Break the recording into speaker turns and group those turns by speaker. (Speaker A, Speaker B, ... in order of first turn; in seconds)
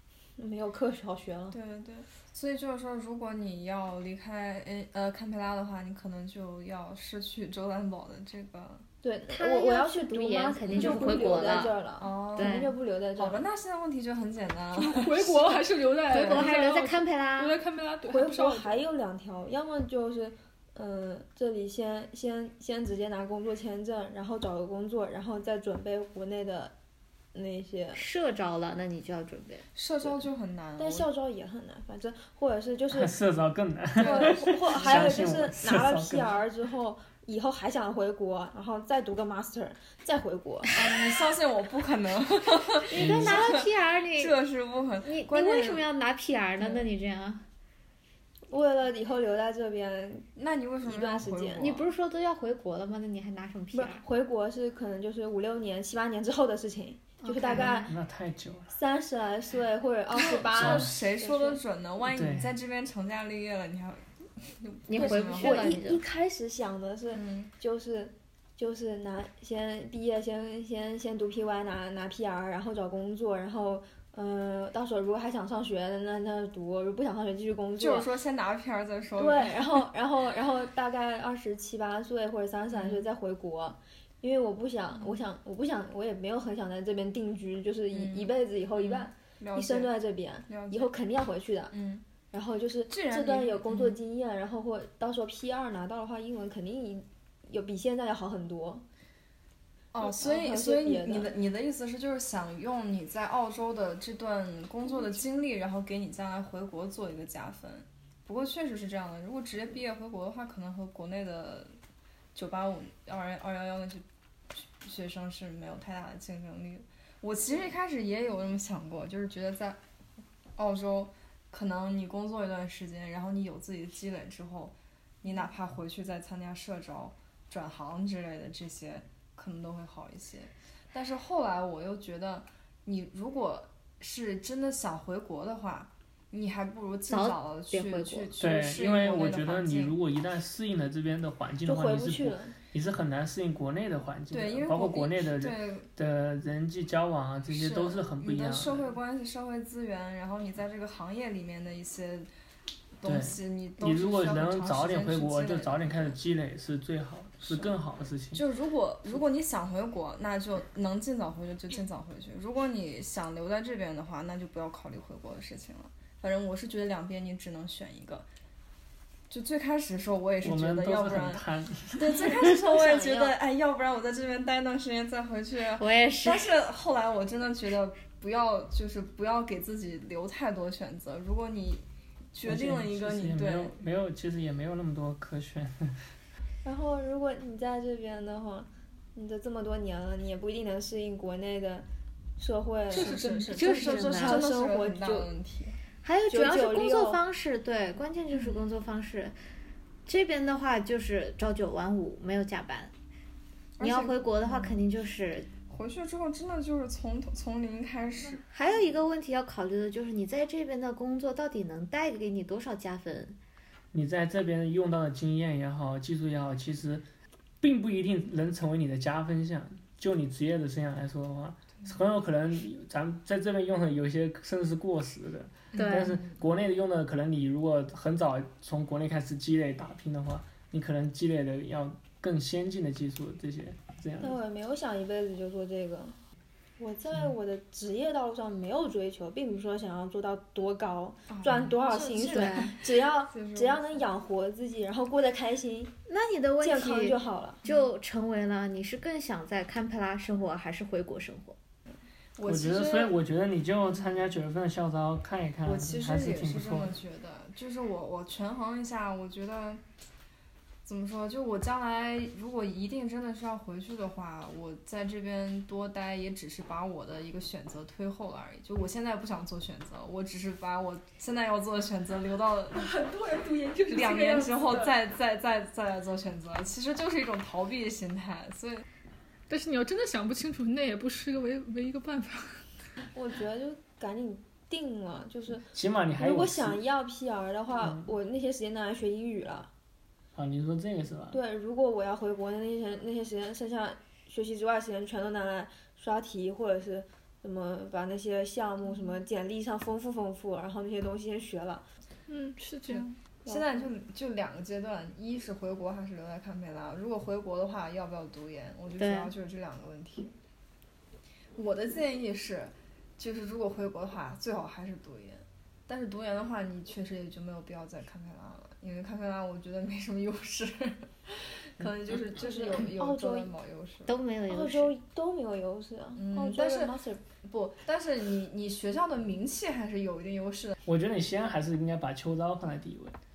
Speaker A: 0.4-1.6, 9.0-13.4, 18.0-26.7, 27.3-28.0, 30.8-33.2, 34.0-40.7, 48.5-50.3, 50.8-51.7, 53.7-57.9, 58.7-61.6, 64.9-78.1, 79.2-91.7, 92.3-98.8, 100.0-101.3, 141.7-142.6, 172.4-173.4, 186.6-191.8, 192.4-193.3, 194.0-195.3, 196.3-197.2, 234.2-236.1, 236.8-245.9, 246.6-247.6, 283.1-289.7, 291.3-301.9, 303.4-303.8, 322.3-323.5, 324.5-327.2
Speaker B: 1.5-8.8, 10.7-11.4, 12.0-16.5, 29.7-31.1, 34.0-35.2, 40.7-45.8, 46.6-46.9, 50.4-51.9, 60.1-65.8, 67.1-67.5, 77.8-79.8, 82.7-83.1, 84.9-85.2, 87.9-89.9, 90.5-90.9, 91.7-92.0, 92.9-94.0, 99.9-111.7, 112.3-119.8, 120.5-139.9, 144.3-145.9, 147.5-152.3, 153.0-156.2, 157.4-157.8, 158.3-168.3, 169.3-183.8, 192.9-195.8, 198.3-198.6, 203.8-204.8, 205.7-208.4, 225.7-226.3, 241.3-244.1, 252.3-253.2, 255.6-259.8, 260.9-272.9, 273.9-278.8, 302.9-310.3, 311.6-324.1, 326.1-330.8
Speaker C: 9.3-11.8, 12.3-12.7, 16.1-17.6, 27.9-29.7, 42.9-44.3, 45.0-47.4, 51.6-54.0, 57.2-57.9, 64.9-66.0, 137.1-138.3, 175.8-176.5, 193.5-194.4, 196.0-199.3, 200.1-202.9, 203.8-205.5, 208.5-213.4, 225.7-226.2, 242.2-242.8, 246.1-251.6, 309.0-309.3, 324.1-324.9
Speaker D: 14.8-18.8, 192.9-194.0, 272.7-275.0, 279.5-282.6, 302.3-303.2
Speaker E: 32.9-36.4, 43.0-43.4, 57.5-58.7, 60.5-61.0, 62.0-62.5, 138.4-148.9, 153.0-158.4, 170.4-172.4, 182.4-186.0, 213.9-217.1, 217.6-234.4, 252.4-256.9, 285.7-286.8, 287.8-288.1, 290.3-291.4, 330.9-333.2